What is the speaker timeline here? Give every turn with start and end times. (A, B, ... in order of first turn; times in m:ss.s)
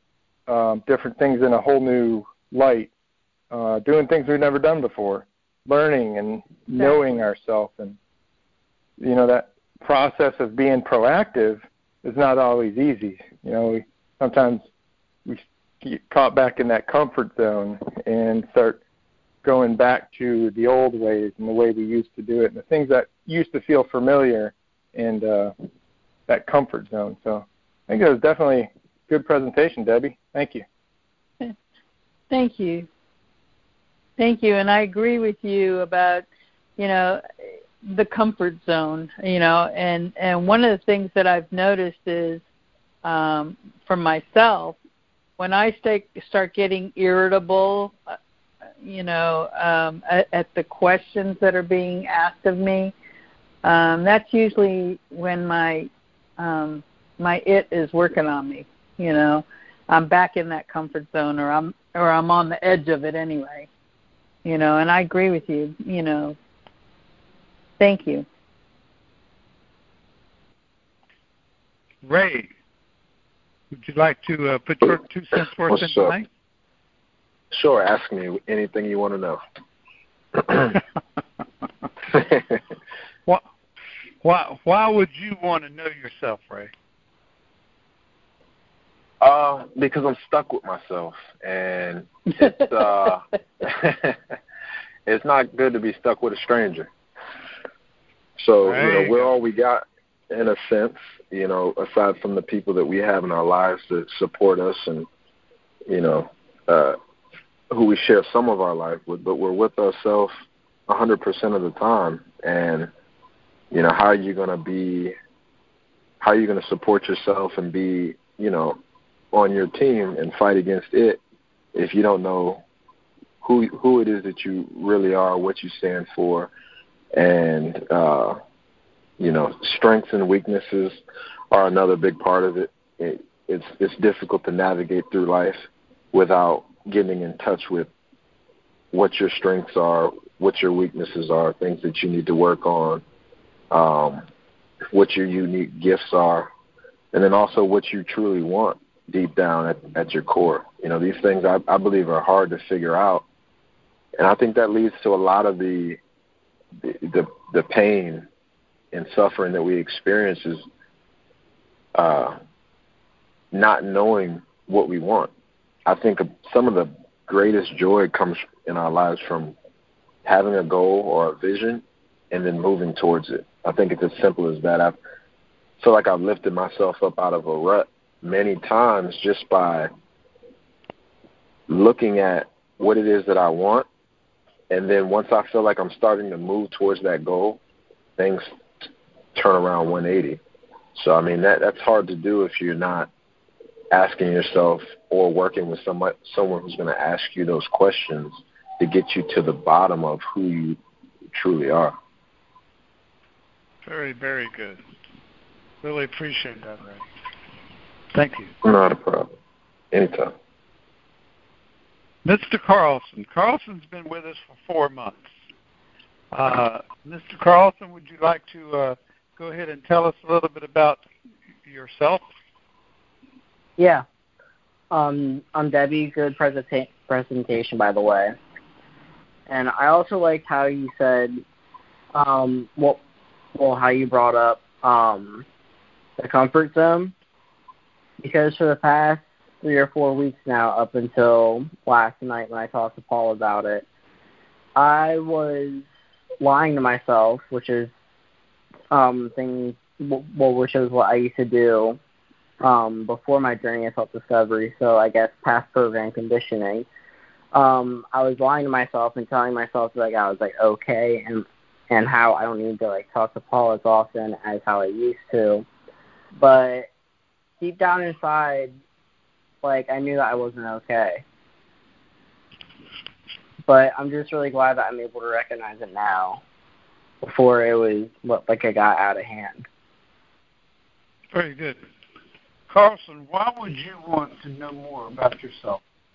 0:00.5-0:02.9 A
0:03.5-0:08.0 A
0:09.0-0:14.6 A
0:15.2-0:18.8 A
0:19.4-0:25.5 A
0:26.3-0:30.6 A
0:32.3-0:32.9 B
0:34.2-0:36.2 B
0:36.8-0:42.4 B
0:43.0-0:44.8 B
0:45.4-0:48.0 B
0:48.8-0:52.9 B
0:53.6-1:03.7 B
1:04.4-1:06.4 B
1:07.8-1:08.2 B
1:12.0-1:12.5 C
1:13.7-1:16.3 C
1:15.7-1:16.1 D
1:17.5-1:19.4 D
1:20.4-1:20.8 D
1:22.1-1:22.6 D
1:24.2-1:26.7 C
1:29.2-1:34.2 D
1:35.0-1:36.9 D
1:38.4-1:45.1 D
1:38.6-1:39.3 C
1:45.9-1:47.0 D
1:47.7-1:50.3 D
1:50.9-1:52.9 D
1:53.7-1:55.1 D
1:56.2-1:58.8 D
1:59.3-2:01.2 D
2:01.7-2:02.6 D
2:03.4-2:06.5 D
2:07.1-2:08.4 D
2:09.2-2:11.0 D
2:11.5-2:17.9 D
2:18.9-2:23.0 D
2:23.7-2:24.2 D
2:24.9-2:26.5 D
2:27.1-2:33.2 D
2:34.2-2:36.0 D
2:36.8-2:38.3 D
2:38.9-2:40.6 D
2:41.9-2:42.4 D
2:43.5-2:45.3 D
2:45.8-2:49.5 D
2:50.2-2:55.0 D
2:55.8-2:59.9 D
3:01.7-3:03.8 D
3:04.7-3:07.6 D
3:08.2-3:10.4 D
3:11.0-3:13.1 D
3:13.9-3:20.8 D
3:21.3-3:21.9 D
3:23.8-3:24.8 C
3:25.8-3:27.0 C
3:28.1-3:28.5 C
3:28.6-3:29.3 D
3:29.9-3:30.3 D
3:32.2-3:35.3 C
3:36.3-3:41.0 C
3:41.6-3:42.2 C
3:43.8-3:44.0 E
3:44.9-3:48.4 E
3:49.5-3:51.4 E
3:52.1-3:53.0 E
3:53.5-3:55.4 E
3:56.2-3:57.1 E
3:58.2-4:03.8 E
4:04.8-4:05.8 E
4:06.4-4:07.9 E
4:08.9-4:12.0 E
4:12.6-4:16.8 E
4:17.5-4:25.6 E
4:26.4-4:26.9 E
4:27.6-4:28.7 E
4:29.6-4:31.2 E
4:33.6-4:36.4 E
4:37.2-4:39.6 E
4:41.3-4:41.8 C
4:42.7-4:45.8 C